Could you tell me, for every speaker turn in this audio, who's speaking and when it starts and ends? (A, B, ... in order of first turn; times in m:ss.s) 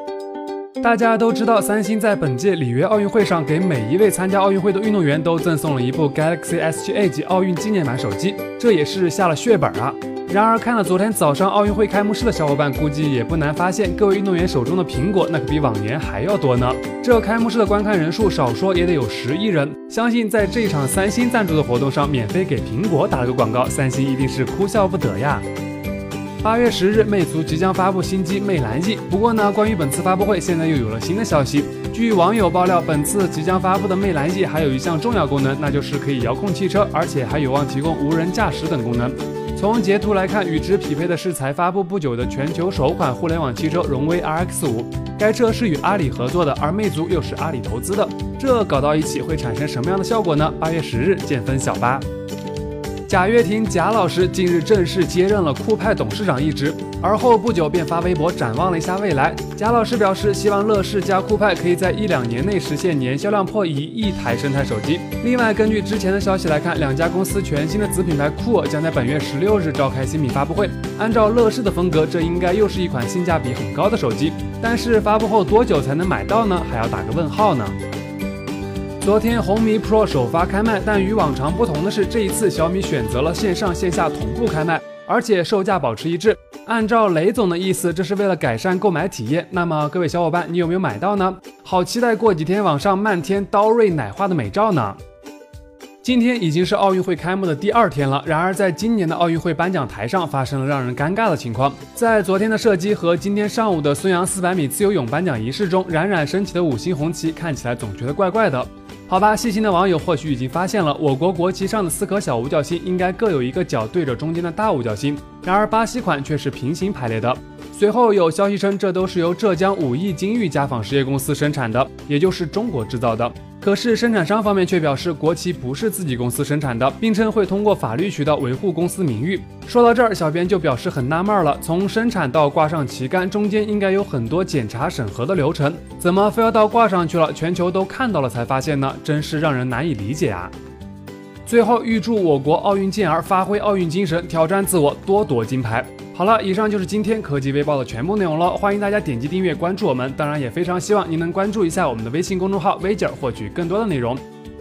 0:00.8-0:25.5 A
0:26.4-0:52.0 A
0:53.1-1:17.8 A
1:19.0-1:35.0 A
1:36.0-2:20.5 A
2:21.5-2:34.2 A